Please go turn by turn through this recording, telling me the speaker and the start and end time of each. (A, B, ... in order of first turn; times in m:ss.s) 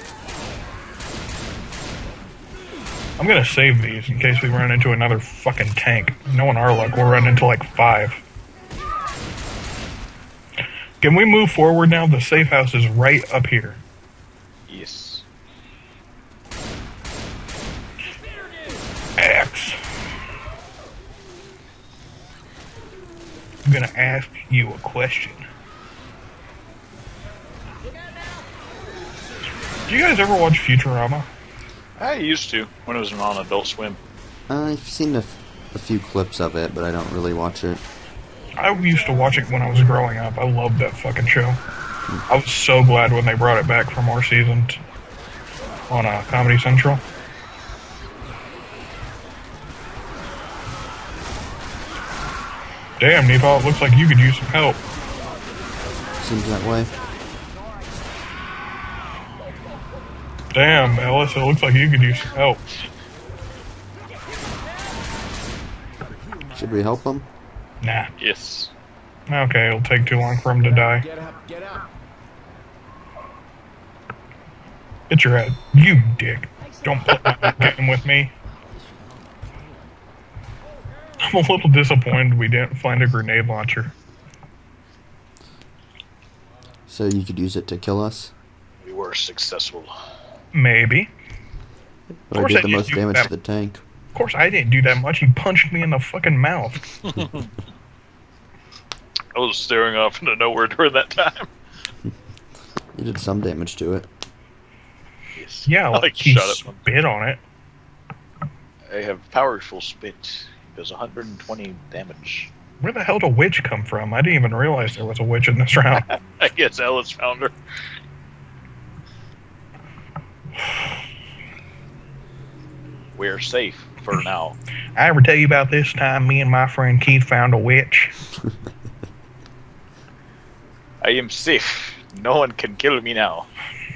0:03.2-0:08.2 A
0:11.0-0:13.8 A
0:14.7-0:15.2 B
0:19.2-0:19.8 A
0:23.6-0:25.4 A
0:29.9-0:31.3 A
0:32.0-0:34.0 B
0:34.5-0:37.8 C
0:38.6-0:41.6 A
0:42.3-0:44.8 A
0:45.9-0:47.0 A
0:53.0-0:54.8 A
0:56.2-0:56.9 C
1:00.5-1:02.6 A
1:06.5-1:07.3 C
1:07.8-1:08.1 A
1:08.2-1:08.7 B
1:09.3-1:11.1 A
1:15.1-1:18.3 A
1:21.3-1:23.9 A
1:26.9-1:28.3 C
1:28.8-1:29.9 B
1:30.5-1:31.1 A
1:32.3-1:33.8 C
1:32.3-1:33.3 A
1:34.1-1:36.8 A
1:37.0-1:37.5 B
1:39.3-1:41.5 B
1:43.0-1:44.1 C
1:45.4-1:46.8 B
1:45.7-1:47.4 A
1:48.9-1:52.5 B
1:52.8-1:56.1 A
1:56.4-1:57.6 B
2:03.2-2:04.6 B
2:05.0-2:08.2 A
2:11.0-2:13.5 B